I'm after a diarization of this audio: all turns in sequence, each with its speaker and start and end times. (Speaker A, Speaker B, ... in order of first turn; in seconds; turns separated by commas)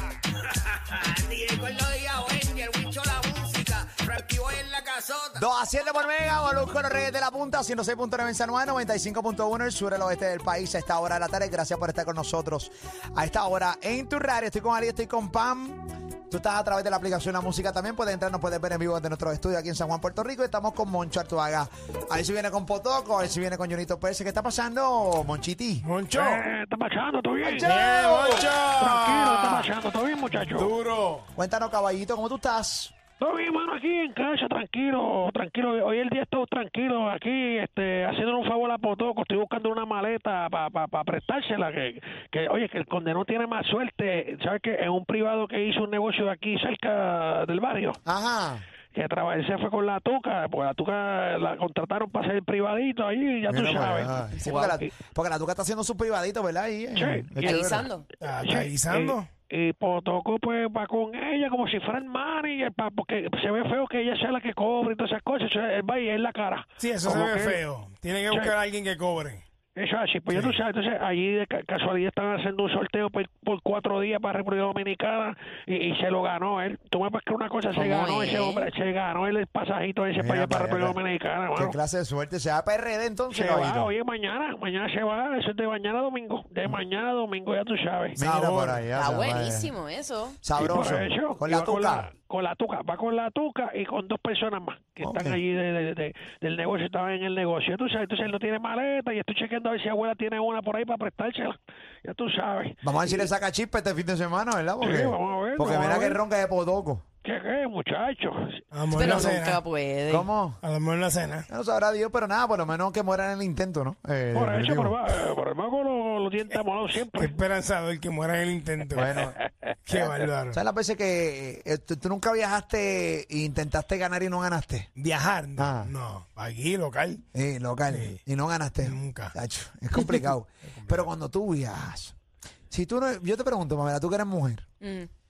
Speaker A: 0.6-5.4, Speaker B: 5.3-25.9, Speaker C: 25.8-26.4, Speaker D: 26.1-27.7, Speaker B: 27.4-28.5, Speaker C: 27.6-29.7, Speaker D: 28.4-30.7, Speaker C: 30.3-31.3, Speaker B: 31.4-32.9, Speaker D: 33.2-48.0, Speaker B: 48.1-48.6, Speaker D: 48.9-54.9, Speaker B: 53.5-57.9, Speaker D: 56.9-57.5, Speaker E: 57.4-58.1, Speaker C: 58.2-59.3, Speaker D: 58.4-67.6, Speaker C: 66.8-69.4, Speaker D: 68.3-68.5, Speaker D: 69.8-81.8, Speaker E: 77.7-78.7, Speaker B: 80.2-81.0, Speaker B: 81.5-83.9, Speaker D: 83.3-88.2, Speaker B: 88.2-89.8, Speaker C: 88.2-88.8, Speaker E: 88.9-90.4, Speaker B: 90.4-92.1, Speaker D: 90.6-103.3, Speaker B: 95.0-95.4, Speaker B: 102.8-107.0, Speaker D: 104.8-106.2, Speaker D: 107.2-108.6, Speaker C: 108.7-109.6, Speaker E: 108.9-110.3, Speaker B: 110.1-110.6, Speaker C: 110.6-111.4, Speaker B: 111.5-115.0, Speaker D: 114.3-117.4, Speaker C: 117.1-119.1, Speaker B: 119.0-119.4, Speaker D: 119.2-120.1, Speaker C: 119.8-120.6, Speaker B: 120.5-124.9, Speaker C: 125.0-127.2, Speaker B: 125.6-125.9, Speaker B: 127.3-132.2, Speaker C: 127.9-128.2, Speaker C: 128.8-129.3, Speaker C: 130.7-131.1, Speaker B: 132.7-134.7, Speaker E: 134.8-135.1